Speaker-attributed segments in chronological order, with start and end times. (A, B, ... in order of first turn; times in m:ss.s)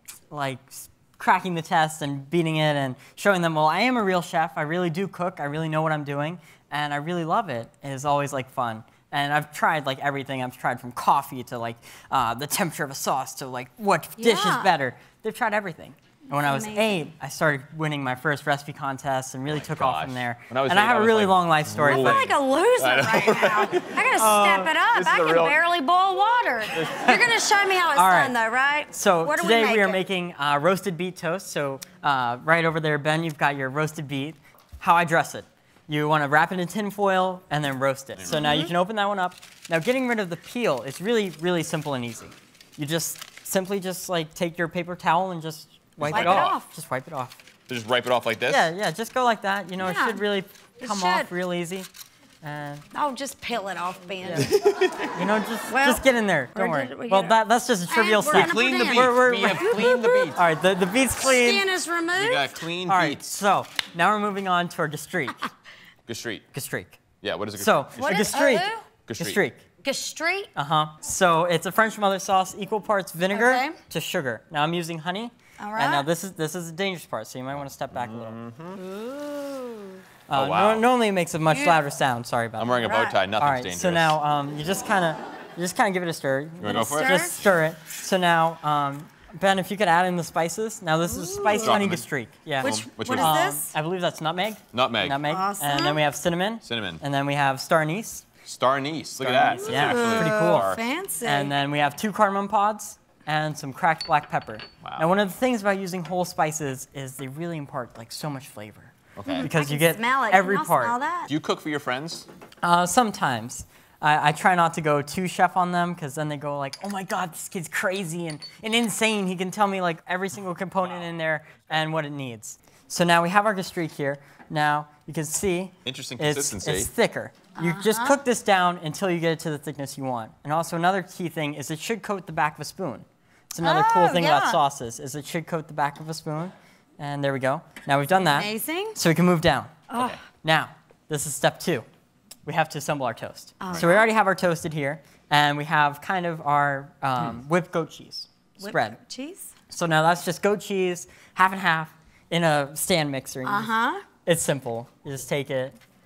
0:00.3-0:22.3 A
0:14.2-0:14.7 B
0:16.3-0:17.1 B
0:19.5-0:24.1 C
0:21.8-0:30.0 B
0:24.2-0:24.8 A
0:24.9-0:25.6 C
0:26.7-0:27.2 C
0:27.9-0:28.4 A
0:28.9-0:47.4 A
0:38.3-0:38.7 B
0:46.0-0:46.5 C
0:46.1-0:46.6 B
0:47.7-0:48.7 C
0:48.5-0:51.9 A
0:49.8-0:50.2 B
0:50.8-0:51.3 B
0:52.4-0:52.8 A
0:52.9-0:54.6 B
0:54.2-0:54.6 A
0:54.5-0:55.1 C
0:55.1-1:01.7 A
0:55.7-1:00.4 B
0:58.3-1:00.4 C
1:01.2-1:02.6 B
1:02.1-1:03.3 C
1:02.9-1:05.5 A
1:06.1-1:06.4 C
1:06.5-1:07.0 A
1:07.2-1:08.2 C
1:07.6-1:09.6 A
1:08.0-1:08.8 B
1:09.1-1:09.4 C
1:09.8-1:10.5 B
1:10.6-1:18.4 A
1:13.3-1:13.8 B
1:15.6-1:16.1 B
1:17.9-1:18.8 C
1:18.8-1:19.9 B
1:20.3-1:38.3 A
1:20.3-1:20.9 C
1:21.5-1:21.8 B
1:22.6-1:24.2 C
1:22.8-1:23.2 B
1:26.6-1:27.2 C
1:26.6-1:27.4 B
1:31.1-1:31.8 B
1:31.5-1:32.0 C
1:32.6-1:33.4 C
1:32.6-1:33.7 B
1:34.7-1:35.2 C
1:35.2-1:36.0 B
1:36.6-1:37.0 C
1:38.4-1:40.8 C
1:39.2-1:40.7 A
1:39.6-1:41.5 B
1:41.2-1:51.0 A
1:49.2-1:49.5 C
1:49.3-1:51.3 B
1:51.3-1:52.3 C
1:52.6-2:21.9 A
2:05.8-2:06.9 C
2:07.6-2:08.2 B
2:13.6-2:14.6 B
2:18.2-2:19.0 B
2:19.9-2:20.2 B
2:20.0-2:20.2 C
2:22.5-2:29.0 A
2:23.6-2:24.1 B
2:28.6-2:29.5 B
2:29.7-2:33.7 A
2:33.4-2:34.0 B
2:34.3-2:35.8 A